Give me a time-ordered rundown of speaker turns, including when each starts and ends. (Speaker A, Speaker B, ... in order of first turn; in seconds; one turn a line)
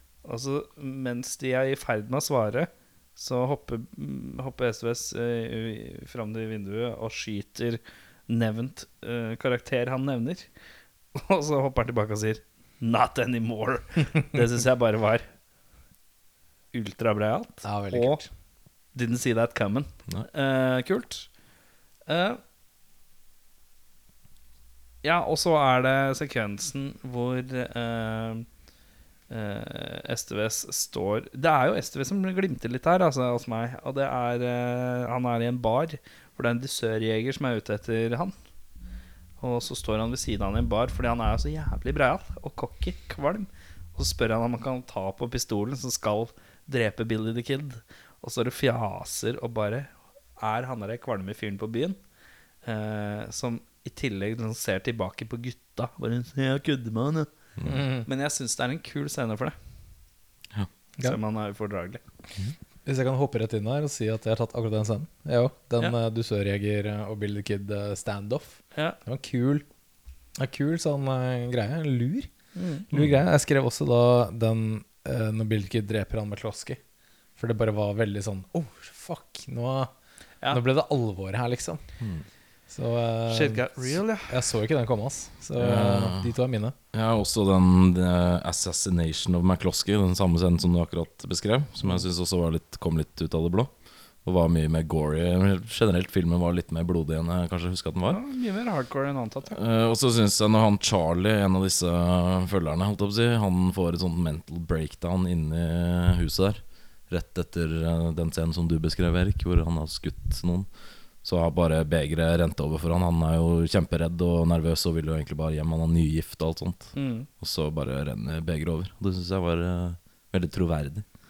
Speaker A: 0.2-10.5
Speaker A: 11.1-15.2
Speaker A: 16.7-18.2
Speaker B: 17.6-18.3
Speaker A: 18.9-21.3
Speaker A: 22.1-22.4
Speaker A: 25.0-28.4
Speaker A: 29.3-38.3
Speaker A: 39.4-52.0
Speaker A: 52.6-57.3
Speaker C: 57.6-57.8
Speaker B: 57.7-58.1
Speaker A: 58.0-59.5
Speaker A: 61.0-62.0
Speaker B: 62.8-69.7
Speaker B: 70.4-72.3
Speaker A: 72.5-72.9
Speaker B: 72.9-76.8
Speaker B: 77.4-79.9
Speaker B: 80.5-81.8
Speaker B: 82.7-86.7
Speaker A: 83.3-84.4
Speaker C: 85.5-86.3
Speaker C: 86.9-93.7
Speaker C: 94.2-98.2
Speaker A: 98.1-99.6
Speaker C: 99.5-110.7
Speaker C: 111.2-121.0
Speaker A: 117.0-117.3